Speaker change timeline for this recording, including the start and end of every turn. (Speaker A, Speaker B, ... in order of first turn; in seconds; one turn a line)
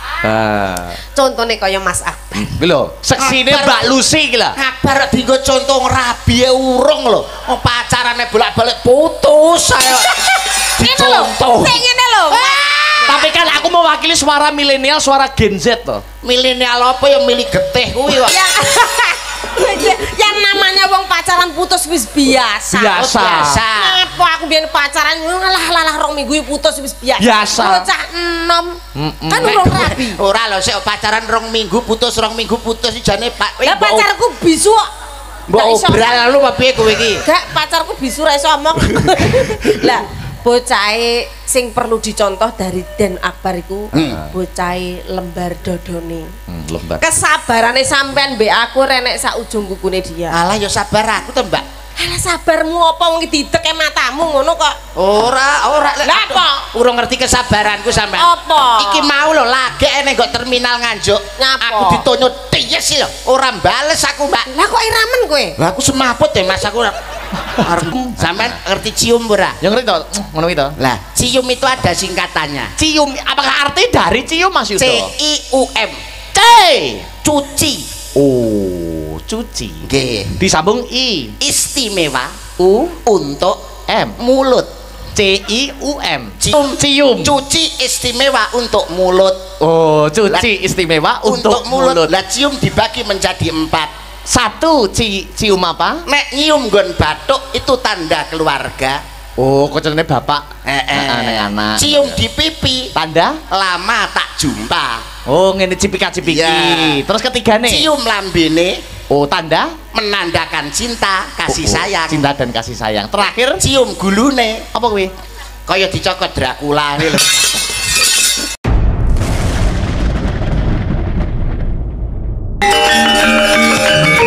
Speaker A: 0.2-1.0
Speaker B: 1.1-2.6
Speaker A: 2.6-4.6
Speaker C: 3.2-3.9
Speaker C: 4.5-11.8
Speaker B: 10.8-13.2
Speaker C: 12.3-13.1
Speaker A: 13.1-16.0
Speaker C: 16.2-18.4
Speaker B: 18.2-30.2
Speaker A: 22.7-23.6
Speaker C: 22.8-24.0
Speaker A: 27.2-27.9
Speaker A: 28.9-29.9
Speaker C: 29.4-34.1
Speaker B: 33.6-34.9
Speaker C: 35.5-37.2
Speaker B: 35.5-36.2
Speaker B: 37.2-46.3
Speaker C: 43.9-44.2
Speaker A: 46.5-47.0
Speaker B: 47.0-50.4
Speaker C: 50.3-51.6
Speaker B: 52.0-54.8
Speaker C: 55.0-64.5
Speaker B: 56.0-56.6
Speaker B: 58.2-59.1
Speaker B: 61.4-62.0
Speaker B: 64.5-65.5
Speaker C: 65.6-67.0
Speaker A: 67.6-68.5
Speaker C: 67.6-69.6
Speaker A: 69.6-70.8
Speaker C: 70.8-72.7
Speaker A: 72.8-75.1
Speaker C: 74.8-76.0
Speaker A: 76.3-77.1
Speaker C: 77.2-77.9
Speaker A: 78.2-81.3
Speaker C: 79.8-80.4
Speaker C: 81.4-82.4
Speaker A: 82.6-83.0
Speaker C: 83.0-83.6
Speaker A: 83.9-84.2
Speaker C: 84.2-84.7
Speaker A: 85.2-87.3
Speaker C: 86.4-89.4
Speaker A: 89.6-92.1
Speaker C: 91.2-93.9
Speaker A: 94.3-96.0
Speaker C: 96.1-99.0
Speaker A: 99.4-102.2
Speaker C: 100.7-102.9
Speaker A: 103.0-103.4
Speaker C: 103.5-105.0
Speaker A: 105.3-107.9
Speaker C: 106.2-107.0
Speaker C: 107.7-108.8
Speaker A: 109.1-109.8
Speaker C: 109.9-112.3
Speaker A: 111.5-113.6
Speaker C: 113.6-114.7
Speaker A: 114.7-115.1
Speaker C: 115.7-117.5